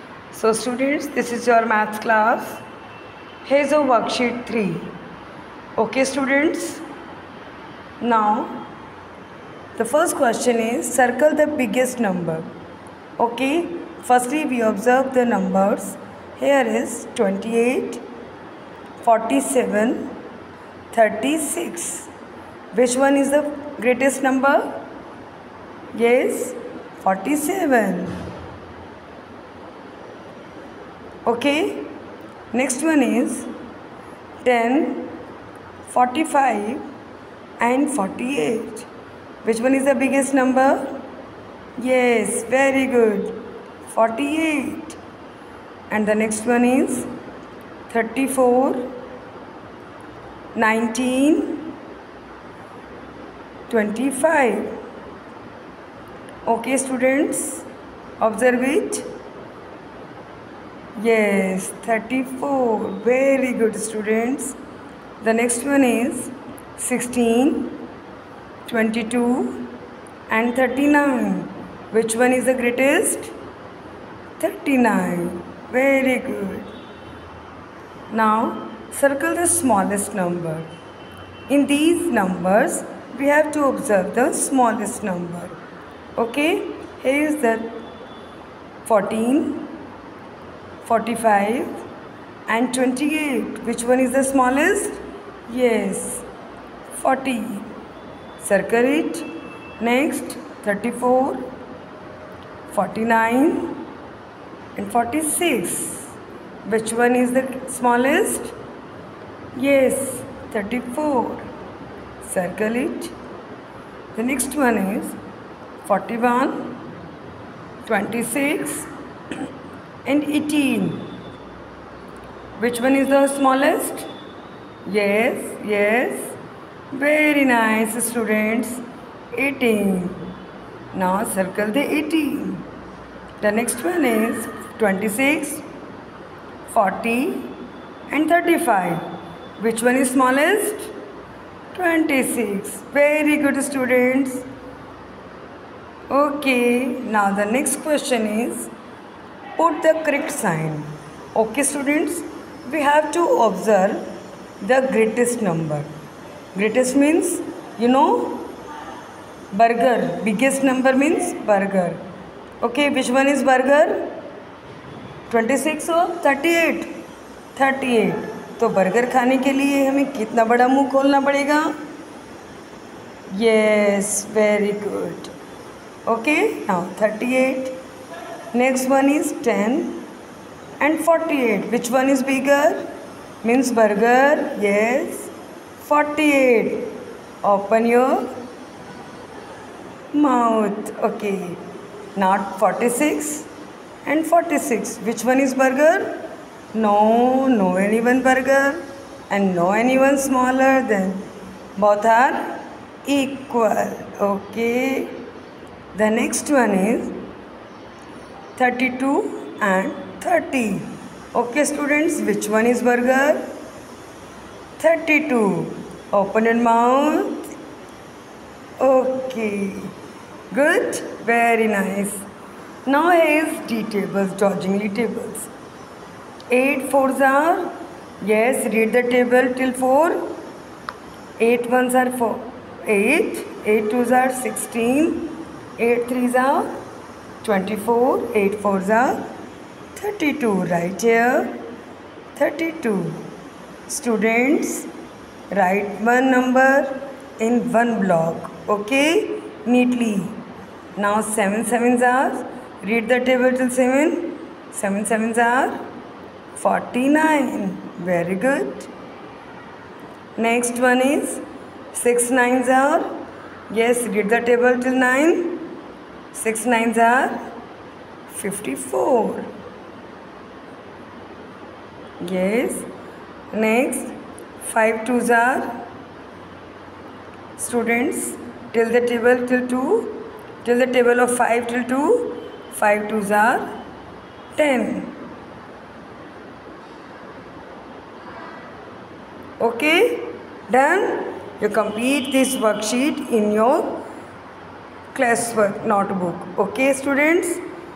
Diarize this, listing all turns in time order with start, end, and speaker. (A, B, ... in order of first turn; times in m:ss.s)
0:00.3-0:02.6 A
0:03.4-0:04.9 A
0:05.8-0:06.8 A
0:08.0-0:08.7 A
0:09.8-0:12.5 A
0:13.2-0:18.0 A
0:19.0-0:20.2 A
0:20.9-0:22.1 A
0:22.7-0:24.9 A
0:26.0-0:28.3 A
0:31.2-0:32.0 A
0:32.5-0:33.5 A
0:34.4-0:35.2 A
0:35.9-0:36.8 A
0:37.6-0:38.9 A
0:39.4-0:41.0 A
0:41.8-0:45.0 A
0:45.9-0:47.1 A
0:47.9-0:49.0 A
0:50.6-0:51.8 A
0:53.7-0:54.8 A
0:56.5-0:57.7 A
0:58.2-0:59.1 A
1:01.0-1:04.6 A
1:05.2-1:07.8 A
1:08.7-1:09.7 A
1:10.3-1:13.3 A
1:14.4-1:16.7 A
1:18.1-1:20.7 A
1:21.5-1:25.6 A
1:26.2-1:27.8 A
1:28.8-1:29.8 A
1:30.8-1:31.8 A
1:32.5-1:36.2 A
1:36.9-1:37.7 A
1:38.4-1:39.3 A
1:39.8-1:41.5 A
1:42.7-1:43.8 A
1:44.8-1:46.1 A
1:46.6-1:48.6 A
1:49.6-1:51.5 A
1:52.2-1:53.1 A
1:54.1-1:55.2 A
1:55.8-1:56.8 A
1:57.8-1:58.9 A
2:00.0-2:01.2 A
2:02.6-2:04.1 A
2:04.8-2:06.4 A
2:06.9-2:08.8 A
2:09.3-2:10.3 A
2:10.9-2:12.7 A
2:13.4-2:15.6 A
2:16.7-2:19.1 A
2:19.6-2:20.9 A
2:21.7-2:24.5 A
2:26.1-2:28.7 A
2:29.6-2:35.9 A
2:36.5-2:38.6 A
2:39.5-2:42.0 A
2:42.6-2:44.2 A
2:45.3-2:47.0 A
2:47.6-2:51.8 A
2:53.3-2:55.3 A
2:56.1-2:57.8 A
2:58.5-3:00.1 A
3:00.8-3:02.9 A
3:03.4-3:08.4 A
3:10.1-3:11.6 A
3:12.2-3:13.5 A
3:14.0-3:25.3 A
3:25.9-3:27.3 A
3:28.6-3:33.5 A
3:34.8-3:37.5 A
3:38.8-3:39.9 A
3:40.5-3:42.2 A
3:42.9-3:45.5 A
3:46.5-3:50.4 A
3:51.4-3:56.8 A
3:57.4-3:59.3 A
4:00.0-4:01.7 A
4:02.4-4:03.3 A
4:03.9-4:04.9 A
4:05.5-4:10.4 A
4:11.0-4:15.9 A
4:16.6-4:18.9 A
4:20.4-4:25.7 A
4:26.3-4:27.5 A
4:28.3-4:29.5 A
4:32.2-4:32.9 A
4:33.5-4:35.8 A
4:37.6-4:43.8 A
4:44.6-4:45.2 A
4:49.6-4:54.1 A
4:55.1-4:57.6 A